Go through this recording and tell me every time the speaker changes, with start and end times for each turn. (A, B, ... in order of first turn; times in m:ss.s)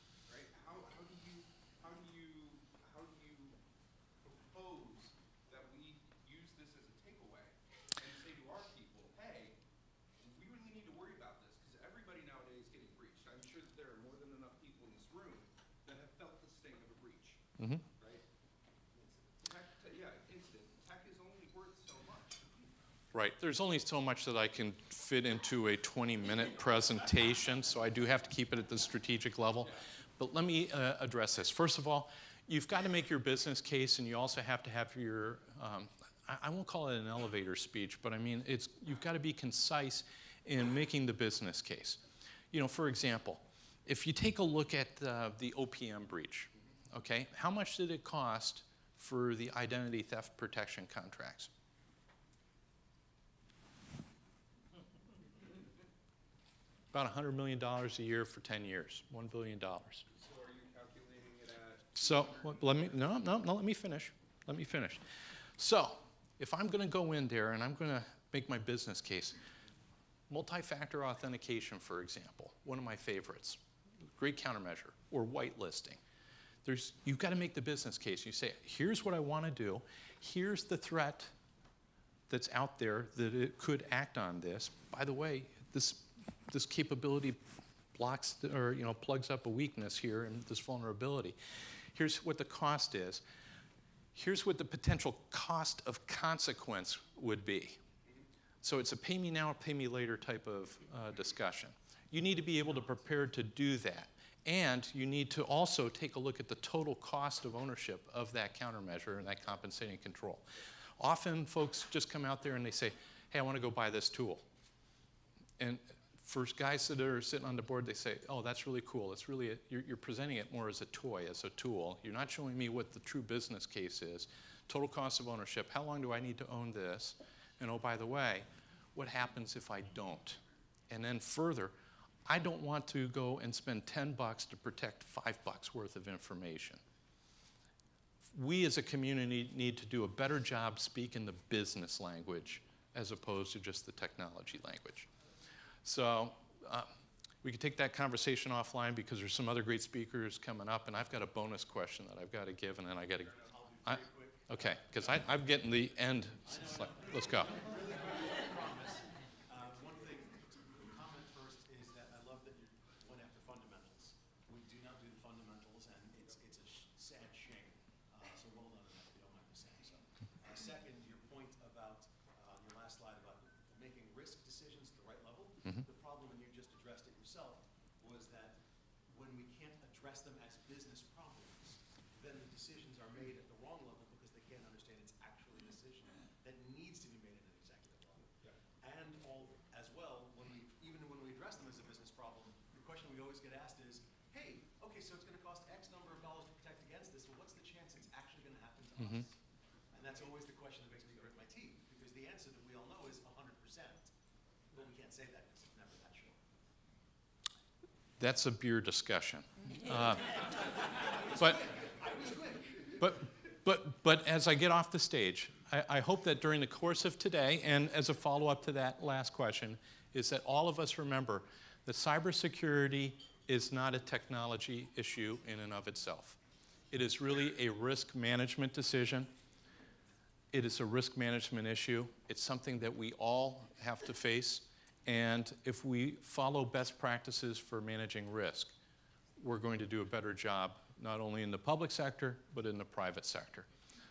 0:00.3-0:03.6 A
0:04.2-0:09.6 A
0:10.2-0:17.4 A
0:17.6-0:17.8 B
0:18.0-0:18.2 A
0:19.0-0:22.7 A
0:23.1-0:51.5 B
0:56.9-1:00.0 B
1:00.1-1:02.9 A
1:01.9-1:09.4 B
1:10.3-1:13.6 B
1:14.1-1:16.0 B
1:16.6-1:21.3 B
1:22.3-1:27.4 B
1:27.9-1:31.4 B
1:31.9-1:33.2 B
1:34.1-1:37.8 B
1:38.6-1:54.4 B
1:55.6-2:11.7 B
2:12.2-2:16.8 B
2:18.3-2:25.1 B
2:25.8-2:26.9 B
2:27.4-2:37.5 B
2:33.4-2:35.3 C
2:36.4-3:08.3 C
3:08.8-3:19.4 C
3:19.0-3:19.3 B
3:19.9-3:24.1 C
3:24.7-3:26.4 C
3:28.2-3:30.4 B
3:30.5-3:33.0 C
3:33.0-3:46.4 B
3:46.9-3:49.3 B
3:50.5-3:58.7 B
3:59.4-4:03.7 B